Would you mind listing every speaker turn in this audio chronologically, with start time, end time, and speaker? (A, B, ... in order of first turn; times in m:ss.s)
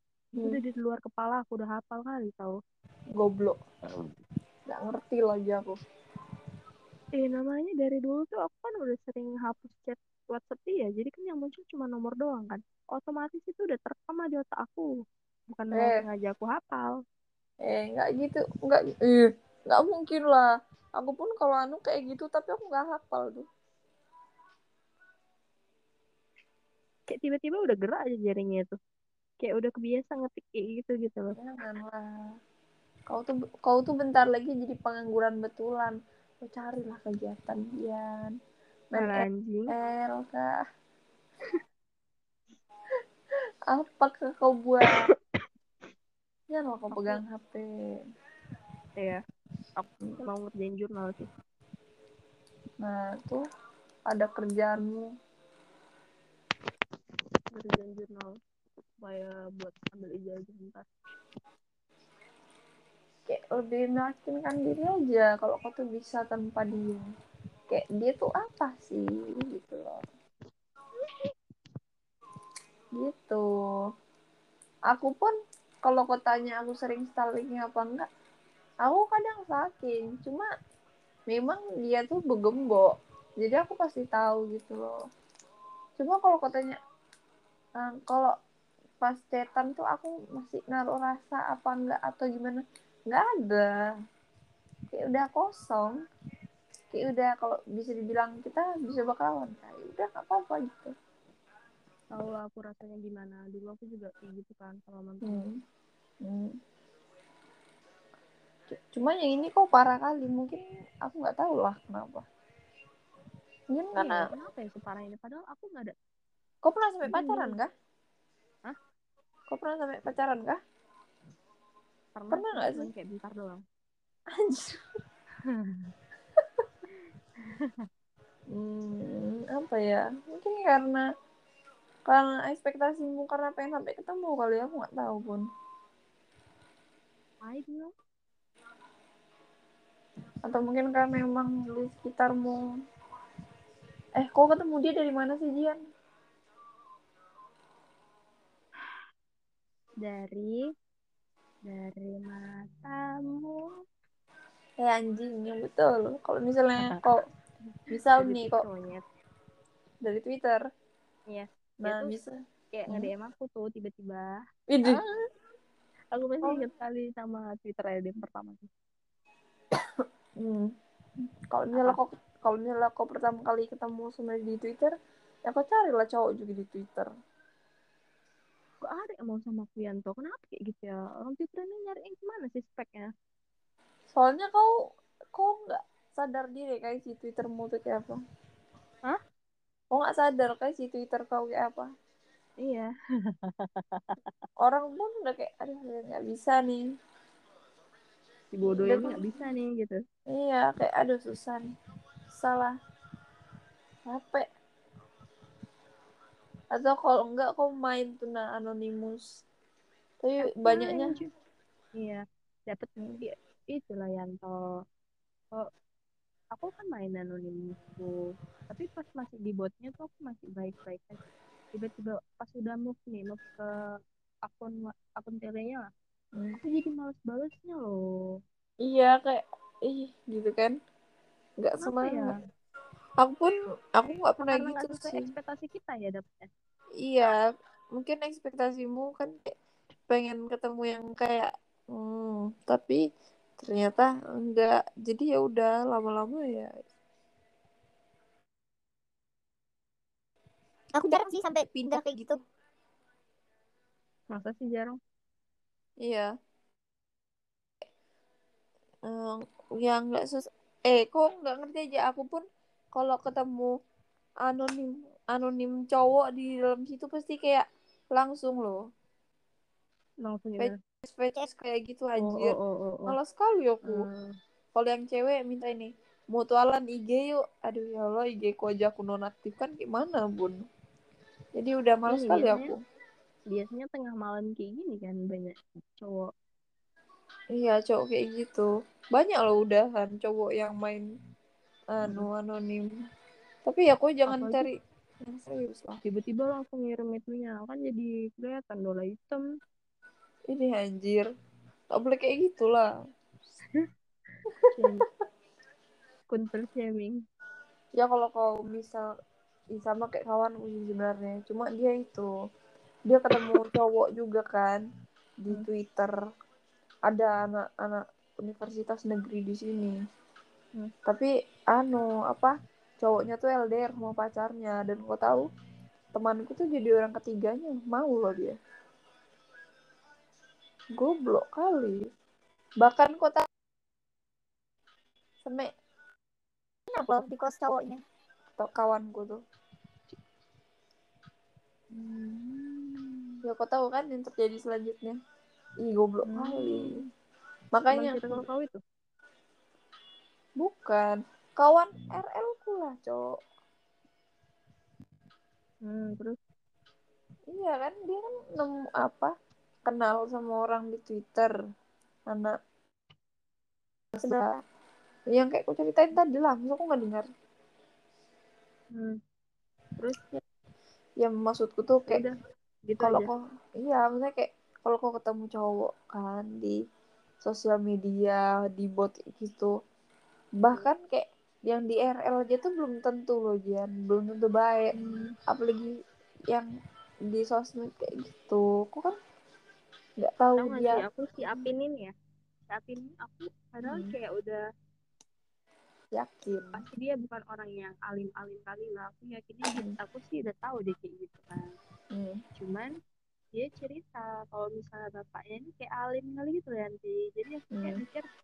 0:00.4-0:02.6 A
0:03.2-0:03.6 B
0:04.7-0:05.8 B
0:07.1-0:14.9 A
0:15.5-0:17.0 A
0:15.7-0:16.0 B
0:17.6-0:23.4 B
0:27.1-0:28.8 A
0:29.4-0:31.3 A
0:31.4-0:32.0 B
0:33.1-0:38.4 B
0:38.9-0:40.6 B
0:39.0-0:39.7 A
0:43.7-0:45.0 B
0:46.5-0:47.7 B
0:46.9-0:47.2 A
0:49.0-0:49.2 A
0:49.8-0:51.3 A
0:52.8-0:53.4 B
0:54.1-0:55.1 B
0:57.5-0:58.3 A
0:59.0-1:00.8 A
1:03.3-1:07.0 B
1:07.7-1:10.0 B
1:13.0-1:13.4 B
1:14.9-1:15.3 B
1:15.8-1:18.1 B
1:18.8-1:20.5 B
1:21.3-1:24.9 B
1:26.0-1:26.8 B
1:27.8-1:28.3 B
1:29.0-1:33.7 B
1:34.9-1:36.0 B
1:36.9-1:40.9 B
1:42.1-1:45.4 A
1:45.2-1:45.6 B
1:46.2-1:46.6 B
1:48.7-1:52.2 B
1:53.7-1:54.3 B
1:54.0-1:56.0 A
1:56.6-1:57.7 B
1:57.0-1:57.6 A
1:59.5-2:00.6 B
2:02.2-2:03.6 A
2:02.3-2:02.9 B
2:04.4-2:04.8 B
2:05.4-2:05.9 A
2:07.4-2:07.9 A
2:08.5-2:11.0 B
2:12.1-2:15.4 B
2:17.4-2:17.9 A
2:20.4-2:22.6 B
2:24.2-2:25.8 B
2:30.0-2:30.6 A
2:31.6-2:33.7 A
2:34.8-2:37.2 B
2:37.9-2:38.6 B
2:38.2-2:39.0 A
2:40.0-2:40.6 B
2:41.3-2:42.1 A
2:41.8-2:42.3 B
2:42.7-2:45.3 A
2:44.7-2:45.0 B
2:46.1-2:48.7 A
2:50.4-2:50.7 B
2:51.5-2:54.9 B
2:55.4-2:57.1 B
2:58.8-3:03.1 A
3:04.1-3:04.7 B
3:05.3-3:08.2 B
3:09.9-3:11.9 B
3:12.6-3:14.2 A
3:14.6-3:16.8 B
3:18.5-3:20.0 A
3:18.7-3:19.2 B
3:20.3-3:21.7 B
3:22.3-3:22.7 B
3:24.0-3:24.5 B
3:26.7-3:29.3 B
3:30.2-3:31.1 B
3:30.4-3:31.3 A
3:32.0-3:34.6 A
3:36.5-3:43.7 A
3:44.4-3:45.9 A
3:46.6-3:48.4 A
3:48.8-3:50.8 B
3:51.6-3:52.4 B
3:51.8-3:52.4 A
3:53.2-3:55.3 B
3:54.4-3:56.5 A
3:57.0-3:57.4 B
3:58.0-3:59.5 B
4:00.1-4:03.0 B
4:03.6-4:06.7 B
4:10.9-4:12.4 C
4:14.3-4:15.0 A
4:16.0-4:16.3 B
4:19.1-4:23.7 B
4:24.4-4:28.8 B
4:30.2-4:30.8 A
4:30.6-4:32.6 B
4:32.2-4:33.2 A
4:33.1-4:34.0 B
4:33.8-4:34.3 A
4:34.8-4:40.6 B
4:41.6-4:42.8 B
4:42.1-4:42.7 A
4:43.5-4:46.3 A
4:47.6-4:51.0 B
4:51.9-4:52.9 B
4:53.6-4:54.7 B
4:54.3-4:54.7 A
4:55.2-4:56.0 B
4:56.0-4:59.4 A
5:00.5-5:01.2 B
5:01.9-5:02.9 B
5:04.8-5:05.0 A
5:06.3-5:07.2 A
5:08.0-5:09.1 B
5:09.7-5:12.3 B
5:13.1-5:14.8 B
5:15.4-5:16.1 B
5:17.1-5:20.0 B
5:21.0-5:25.5 B
5:26.1-5:28.6 B
5:30.9-5:32.1 B
5:32.8-5:33.4 B
5:35.4-5:35.7 B
5:36.9-5:38.0 C
5:38.6-5:39.4 B
5:42.0-5:43.0 A
5:43.4-5:45.2 B
5:45.8-5:46.9 B
5:46.3-5:47.1 A
5:47.7-5:48.4 B
5:47.9-5:48.8 A
5:50.6-5:53.3 B
5:55.8-5:56.4 A
5:57.5-5:59.3 B
5:59.8-6:01.5 B
6:02.3-6:02.6 B
6:04.2-6:04.5 B
6:05.3-6:07.3 B
6:08.9-6:09.2 A
6:10.0-6:10.4 A
6:11.2-6:12.2 B
6:12.1-6:12.3 A
6:12.9-6:13.3 A
6:13.0-6:16.8 B
6:17.4-6:19.7 B
6:20.6-6:25.0 B
6:25.0-6:25.3 A
6:25.5-6:26.0 B
6:27.3-6:29.1 B
6:30.2-6:31.0 B
6:30.6-6:32.1 A
6:32.7-6:34.6 A
6:33.9-6:34.1 B
6:36.1-6:36.8 B
6:36.7-6:41.7 A
6:39.7-6:40.0 B
6:42.1-6:42.4 B
6:42.6-6:42.9 A
6:43.5-6:48.2 A
6:47.7-6:48.0 B